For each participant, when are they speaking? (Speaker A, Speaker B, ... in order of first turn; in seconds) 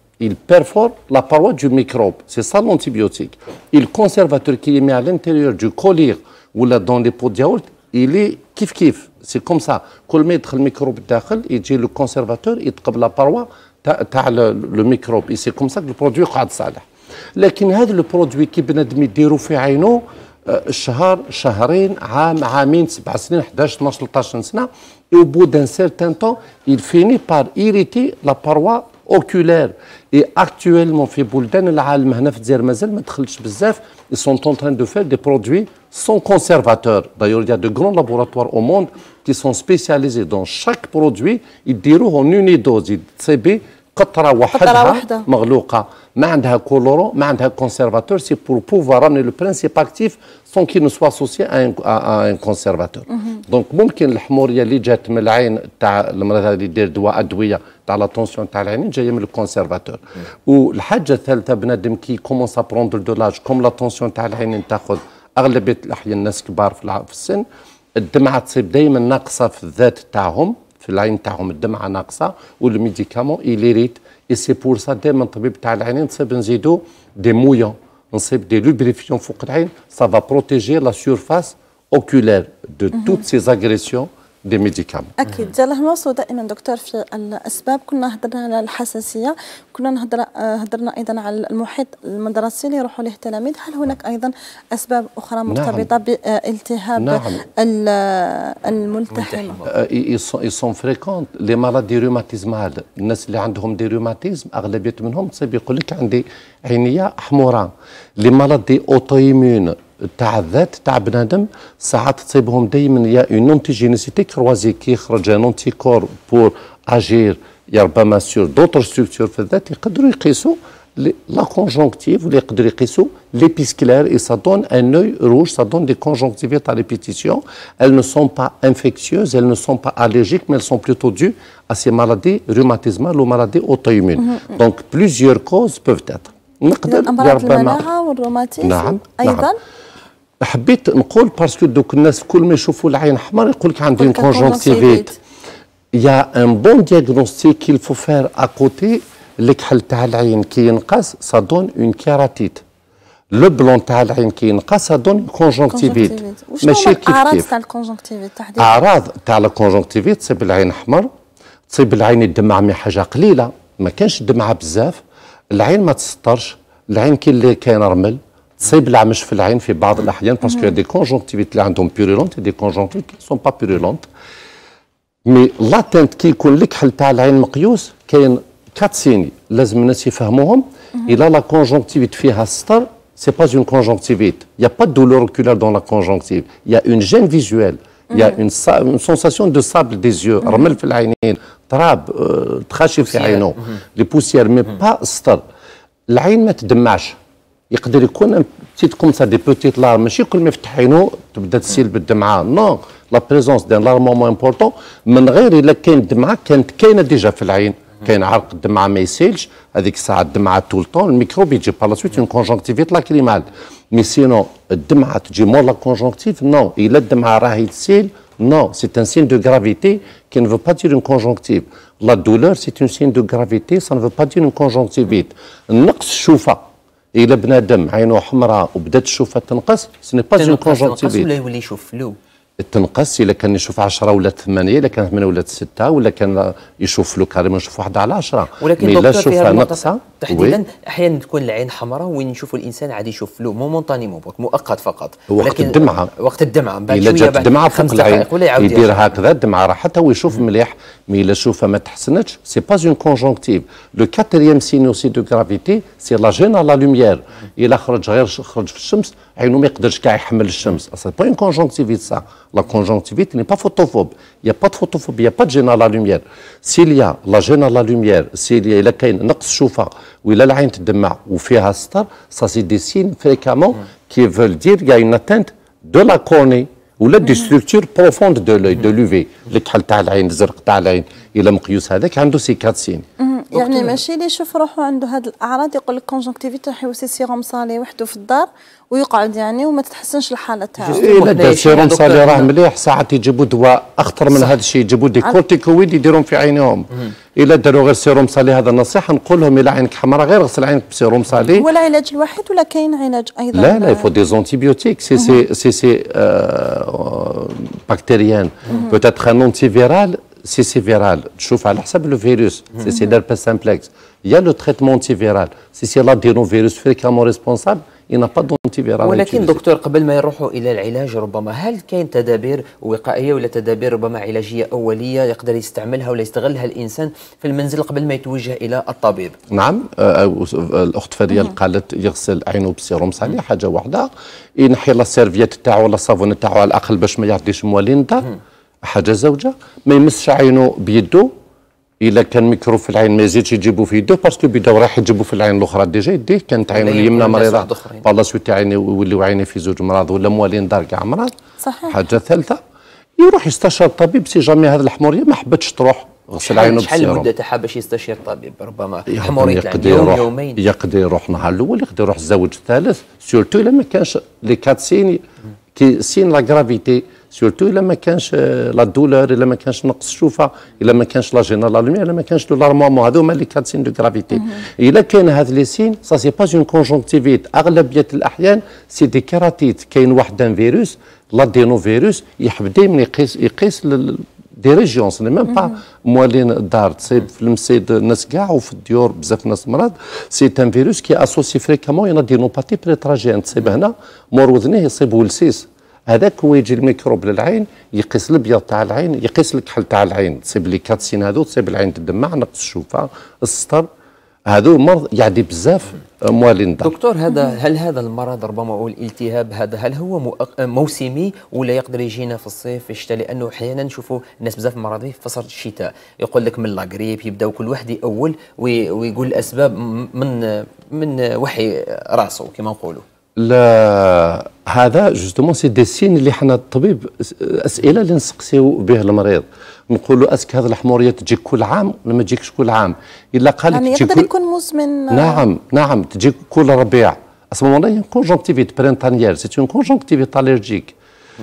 Speaker A: 0.2-85.1, 95.5-95.9, 97.0-97.4, 99.7-137.8, 138.6-139.5, 140.4-145.1, 145.9-152.6, 153.3-157.5, 158.6-161.1, 161.7-174.1, 175.2-195.4, 196.1-197.2, 197.7-226.6, 227.1-231.3, 232.6-240.6, 245.3-246.1, 246.9-283.1, 291.0-301.7, 303.5-319.6, 329.5-341.3, 342.0-351.4, 351.9-352.6, 353.2-357.3, 359.1-365.2, 365.8-403.9, 404.5-406.9, 423.4-434.3, 435.1-440.9
Speaker B: 44.5-45.3, 85.2-99.6, 136.9-139.6, 144.0-145.2, 155.7-158.8, 283.2-291.0, 301.6-304.1, 351.6-352.0, 433.7-435.4
Speaker C: 99.1-99.8, 193.1-193.5, 230.4-232.2, 238.6-249.2, 283.6-283.9, 290.8-292.5, 319.0-329.4, 346.7-348.1, 356.4-360.6, 406.8-423.1